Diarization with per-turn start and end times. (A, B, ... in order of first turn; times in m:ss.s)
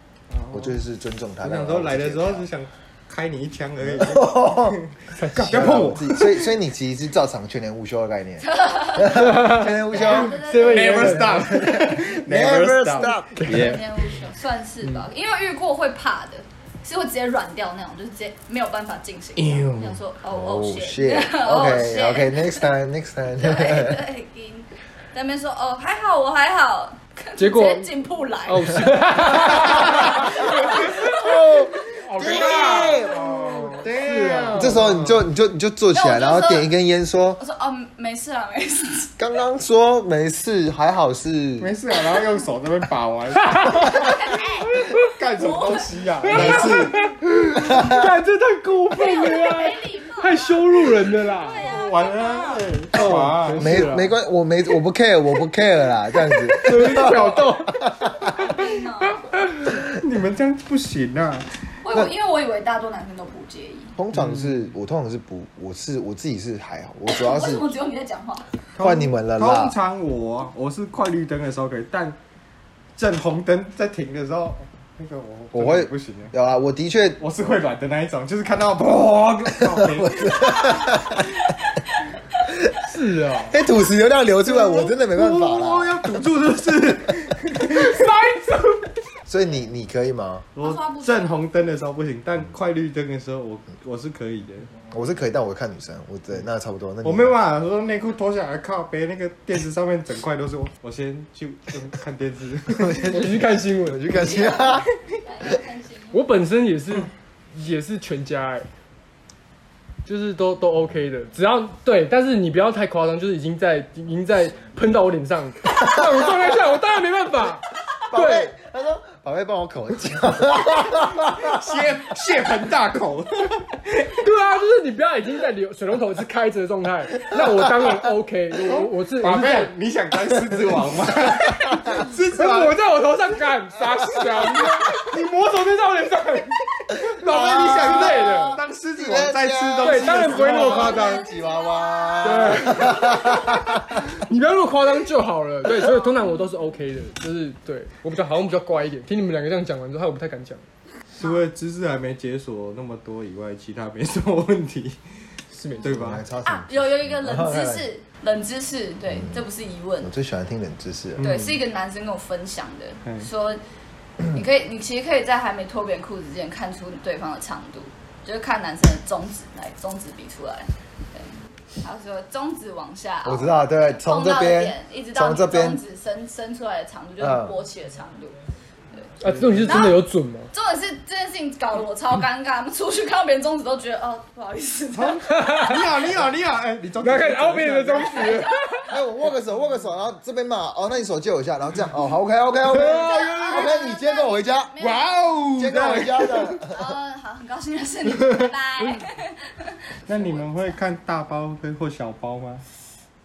0:00.3-0:00.8 A
0:00.5-0:02.5 B
0:01.4-0:06.3 A
0:03.8-0:04.8 B
0:05.1-0:06.1 C
0:05.4-0:10.4 B
0:08.4-0:11.4 D
0:09.1-0:09.7 C
0:10.0-0:13.9 A
0:10.3-0:11.8 C
0:11.4-0:13.4 B
0:13.0-0:22.7 D
0:19.4-0:19.9 A
0:20.3-0:24.0 B
0:23.4-0:31.3 D
0:27.4-0:27.9 C
0:28.5-0:30.9 C
0:30.6-0:33.6 B
0:32.0-0:34.9 C
0:32.2-0:33.8 D
0:33.0-0:35.2 A
0:34.6-0:37.4 B
0:35.9-0:36.7 D
0:37.4-0:39.1 D
0:39.2-0:41.7 B
0:41.6-0:44.2 A
0:43.4-0:44.1 C
0:43.9-0:44.8 D
0:44.7-0:45.1 C
0:45.0-0:46.9 A
0:45.3-0:46.8 D
0:46.3-0:47.0 B
0:46.4-0:51.6 C
0:47.6-0:48.1 B
0:48.9-0:52.7 D
0:51.5-0:53.6 A
0:52.9-0:54.2 C
0:53.0-0:58.3 B
0:56.5-0:58.1 C
0:56.7-0:57.4 A
0:58.2-0:59.3 D
0:59.3-1:01.5 A
1:01.8-1:04.0 D
1:04.0-1:07.7 B
1:04.2-1:04.7 A
1:07.1-1:08.5 D
1:08.8-1:12.2 A
1:08.8-1:09.8 B
1:13.0-1:16.3 A
1:15.5-1:17.2 B
1:17.2-1:20.6 A
1:19.7-1:21.3 B
1:20.6-1:22.6 D
1:22.8-1:23.6 C
1:23.4-1:26.2 B
1:24.5-1:28.1 A
1:27.7-1:28.9 C
1:29.3-1:30.5 B
1:30.6-1:34.7 A
1:30.6-1:31.3 D
1:34.9-1:37.4 B
1:37.0-1:43.0 A
1:42.7-1:44.9 B
1:43.0-1:44.1 C
1:44.1-1:46.2 D
1:46.1-1:48.7 C
1:50.0-1:58.5 C
1:58.1-2:01.5 B
2:00.8-2:04.1 A
2:04.1-2:09.7 C
2:08.7-2:12.8 A
2:12.3-2:18.6 C
2:17.1-2:23.8 B
2:17.3-2:21.1 A
2:19.8-2:21.2 C
2:20.5-2:23.6 D
2:22.2-2:23.0 C
2:23.9-2:30.6 C
2:31.2-2:35.0 A
2:35.5-2:36.0 C
2:35.8-2:36.2 A
2:35.9-2:37.9 B
2:36.4-2:40.1 D
2:39.1-2:39.4 B
2:40.0-2:41.3 B
2:41.2-2:41.6 A
2:41.2-2:43.6 D
2:44.2-2:58.4 D
2:53.2-2:55.8 B
2:57.2-2:57.6 B
2:59.2-3:00.5 C
2:59.3-2:59.8 A
2:59.6-3:05.4 D
3:04.9-3:08.3 A
3:05.2-3:05.8 C
3:07.0-3:08.9 C
3:08.0-3:09.0 D
3:08.9-3:14.7 B
3:12.7-3:13.6 C
3:12.8-3:15.3 D
3:12.9-3:13.2 A
3:14.8-3:16.6 A
3:15.6-3:16.8 B
3:16.6-3:20.8 D
3:20.1-3:22.6 A